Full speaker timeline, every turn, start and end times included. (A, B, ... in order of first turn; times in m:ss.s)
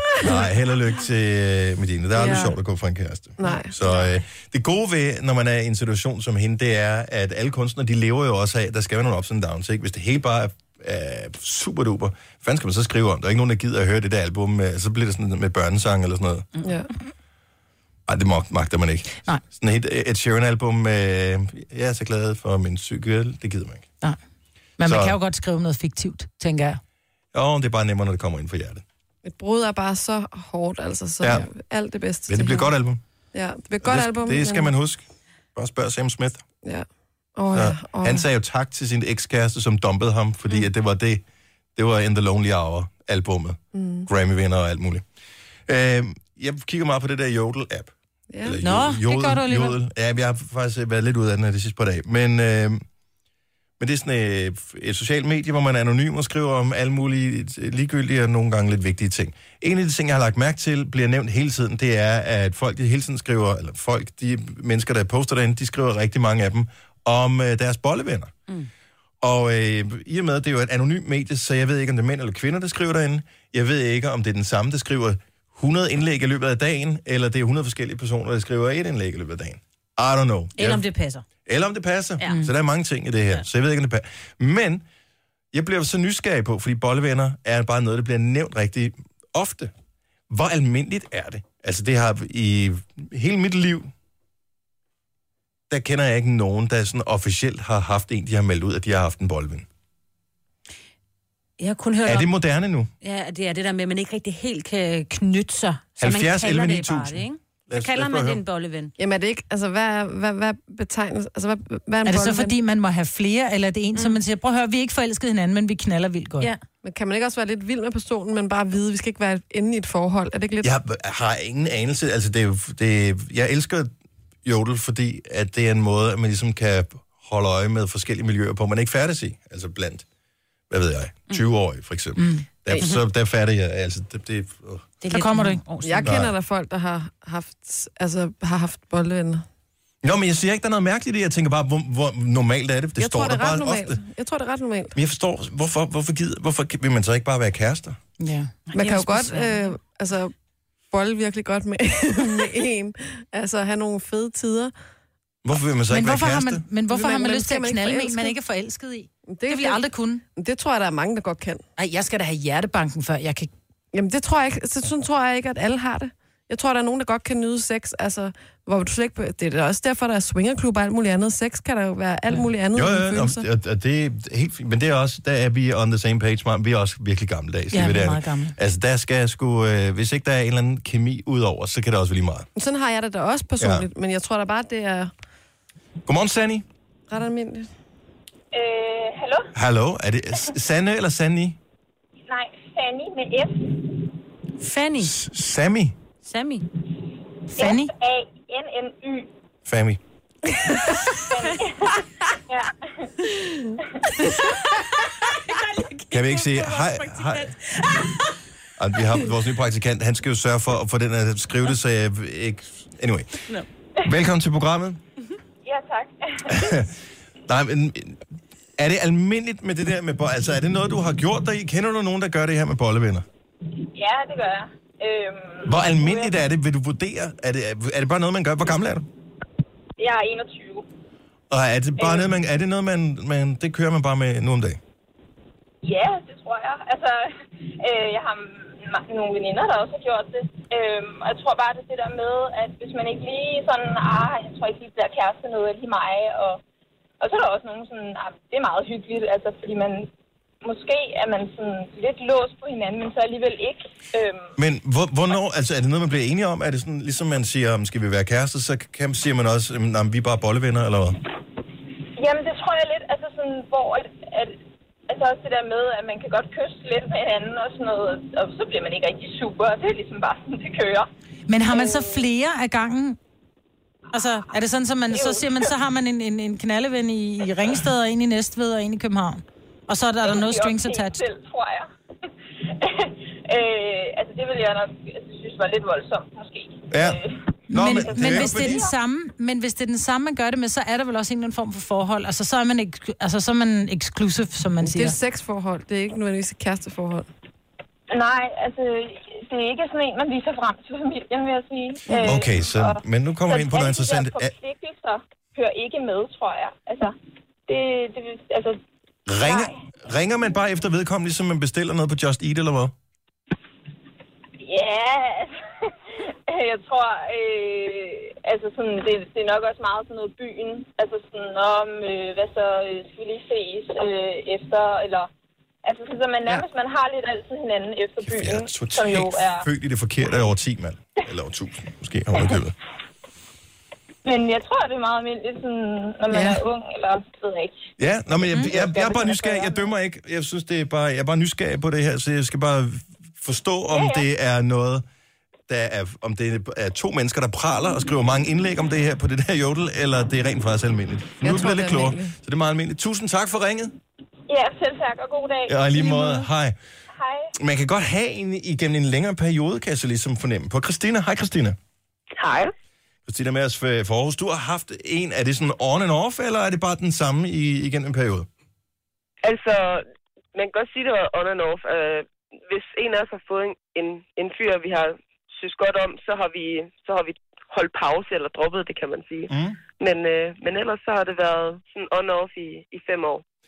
0:00.2-0:16.5 A
0:02.2-0:02.5 B
0:03.4-0:03.7 B
0:18.1-0:23.9 A
0:24.8-0:26.8 C
0:24.8-0:25.2 A
0:27.3-0:28.8 A
0:29.3-0:32.7 B
0:31.2-0:31.5 A
0:32.3-0:33.0 A
0:33.3-0:34.7 B
0:33.8-0:36.4 A
0:37.4-0:38.2 B
0:37.5-0:41.2 A
0:41.8-0:45.0 A
0:43.8-0:44.1 B
0:45.7-0:52.8 A
0:48.3-0:48.6 B
0:48.6-0:49.8 C
0:53.8-1:08.3 A
1:09.2-1:20.8 A
1:20.6-1:21.2 D
1:21.4-1:24.8 A
1:25.5-1:29.7 A
1:30.3-1:33.9 A
1:35.7-1:39.7 A
1:41.6-1:42.3 D
1:42.0-1:42.9 A
1:43.0-1:48.9 D
1:46.0-1:48.4 A
1:49.0-1:52.6 B
1:52.1-1:56.5 C
1:56.8-2:00.7 B
2:00.6-2:03.9 A
2:04.4-2:10.0 A
2:10.7-2:14.9 A
2:12.2-2:12.5 C
2:15.0-2:16.2 D
2:15.1-2:15.6 C
2:15.8-2:19.4 B
2:16.0-2:16.3 A
2:20.0-2:24.0 A
2:23.0-2:25.0 B
2:25.0-2:28.0 A
2:28.2-2:28.5 C
2:28.7-2:29.6 D
2:28.7-2:30.3 B
2:30.9-2:34.7 B
2:35.4-2:36.6 A
2:35.9-2:40.2 C
2:36.9-2:38.4 B
2:39.3-2:39.8 B
2:40.4-2:41.6 B
2:41.8-2:43.5 C
2:43.9-2:53.4 B
2:52.7-3:02.5 A
2:57.7-2:58.6 C
3:02.6-3:05.1 B
3:03.6-3:03.9 A
3:06.1-3:06.7 A
3:07.1-3:07.7 B
3:08.5-3:09.5 E
3:09.5-3:11.6 A
3:12.3-3:14.0 E
3:14.6-3:15.2 D
3:15.0-3:16.0 A
3:16.2-3:16.7 D
3:17.6-3:17.9 C
3:17.6-3:19.3 E
3:19.7-3:20.0 A
3:20.7-3:21.0 B
3:21.3-3:23.1 E
3:23.4-3:23.7 B
3:24.8-3:28.4 D
3:26.1-3:27.5 A
3:28.8-3:33.5 A
3:34.0-3:35.0 A
3:35.6-3:36.8 E
3:36.5-3:37.0 A
3:37.5-3:38.2 A
3:38.8-3:43.2 A
3:43.9-3:46.4 E
3:45.6-3:49.1 A
3:50.0-3:50.9 E
3:51.5-3:54.8 A
3:52.0-3:52.3 E
3:55.8-4:06.6 E
4:07.2-4:10.1 E
4:10.6-4:14.5 E
4:14.6-4:21.2 A
4:22.2-4:24.6 E
4:25.1-4:31.1 E
4:31.5-4:33.2 C
4:31.7-4:32.2 E
4:34.1-4:41.2 C
4:35.1-4:35.7 E
4:40.2-4:41.9 E
4:42.6-4:48.9 E
4:46.9-4:48.9 A
4:47.7-4:55.2 C
4:54.8-4:57.3 B
4:58.1-5:07.1 E
5:02.1-5:02.4 B
5:02.2-5:04.5 A
5:07.7-5:08.8 E
5:09.3-5:12.9 A
5:09.4-5:09.8 E
5:14.6-5:25.3 E
5:25.8-5:29.7 E
5:28.2-5:32.8 A
5:34.2-5:37.9 E
5:36.3-5:36.6 B
5:38.0-5:45.0 A
5:38.6-5:39.9 E
5:43.9-5:44.3 E
5:45.7-5:54.0 A
5:51.4-5:52.3 B
5:54.5-5:56.0 E
5:55.7-5:56.8 A
5:57.2-5:57.5 E
5:57.6-6:01.8 A
6:02.4-6:02.7 F
6:03.3-6:08.5 A
6:09.4-6:23.4 F
6:19.5-6:19.8 A